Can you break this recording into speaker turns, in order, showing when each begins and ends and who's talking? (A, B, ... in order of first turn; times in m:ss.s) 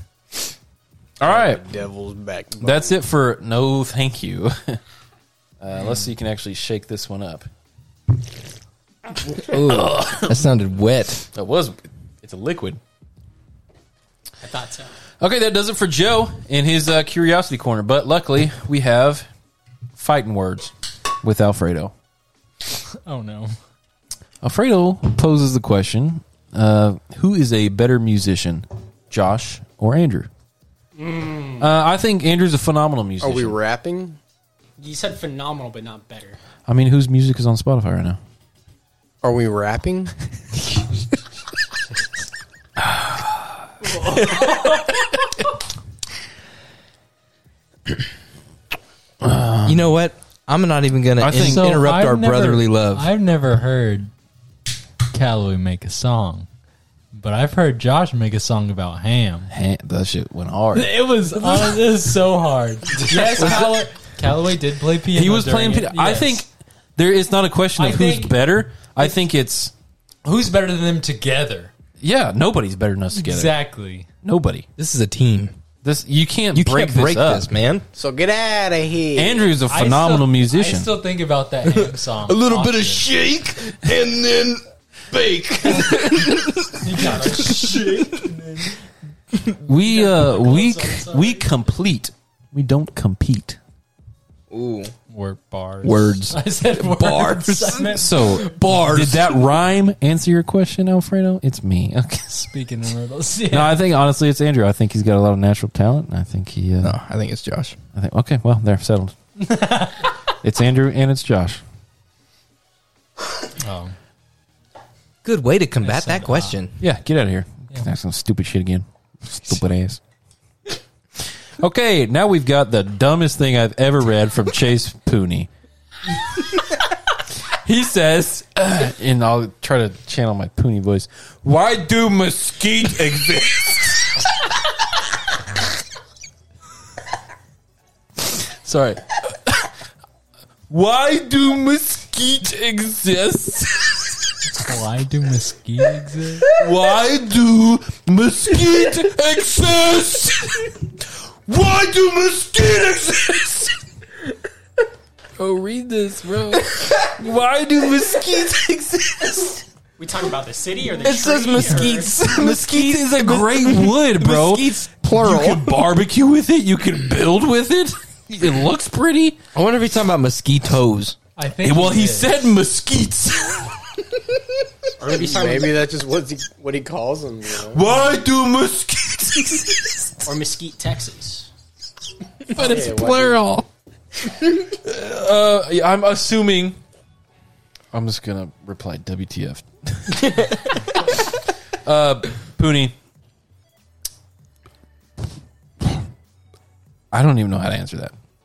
0:01.2-0:01.6 A
0:01.2-0:03.0 B
0:02.6-0:04.8 A
0:05.6-0:07.5 A
0:09.3-0:10.5 A
0:09.4-0:11.3 C
0:11.3-0:12.8 A
0:14.4-0:15.0 D
0:15.2-0:19.3 A
0:20.0-0:21.9 A
0:23.0-0:23.6 E
0:24.4-0:30.3 A
0:31.0-0:31.7 D
0:31.6-0:33.6 A
0:33.2-0:34.2 B
0:34.8-0:36.4 D
0:36.7-0:38.2 A
0:39.2-0:40.1 B
0:42.8-0:43.2 A
0:49.2-0:49.9 A
0:49.6-0:53.1 C
0:51.2-0:51.7 A
0:51.4-0:54.1 E
0:55.1-0:56.5 E
0:57.1-0:59.5 E
0:59.5-1:01.7 A
1:00.7-1:06.4 E
1:03.1-1:03.8 A
1:05.1-1:09.7 A
1:07.8-1:08.4 E
1:10.2-1:11.7 E
1:12.0-1:13.6 A
1:13.1-1:14.1 E
1:14.2-1:14.7 A
1:14.8-1:15.6 C
1:15.8-1:17.5 A
1:16.5-1:17.8 C
1:17.9-1:19.5 B
1:19.2-1:20.9 A
1:19.7-1:23.1 E
1:21.7-1:28.3 C
1:25.8-1:28.8 E
1:29.6-1:33.6 A
1:29.7-1:31.5 E
1:34.5-1:34.9 C
1:35.1-1:38.5 E
1:35.8-1:39.4 C
1:37.9-1:42.4 A
1:42.3-1:43.8 E
1:43.5-1:47.0 A
1:46.8-1:47.8 C
1:47.9-1:49.2 A
1:49.4-1:50.1 E
1:50.4-1:51.6 A
1:53.6-1:54.0 E
1:55.2-1:56.8 C
1:55.8-1:56.6 E
1:56.8-2:00.0 A
2:01.6-2:05.5 A
2:07.5-2:14.3 A
2:18.2-2:19.7 A
2:20.7-2:24.3 A
2:24.5-2:26.5 E
2:26.6-2:33.8 A
2:35.4-2:39.6 A
2:40.0-2:42.2 D
2:41.0-2:45.8 C
2:42.2-2:49.4 A
2:49.5-2:51.2 C
2:51.4-2:52.5 E
2:51.6-2:53.9 A
2:55.0-2:55.8 D
2:55.0-2:57.8 B
2:57.7-3:00.2 A
3:00.2-3:01.5 D
3:02.5-3:03.7 A
3:02.5-3:03.4 B
3:04.4-3:06.8 A
3:07.9-3:11.1 A
3:11.8-3:13.0 A
3:17.1-3:18.1 A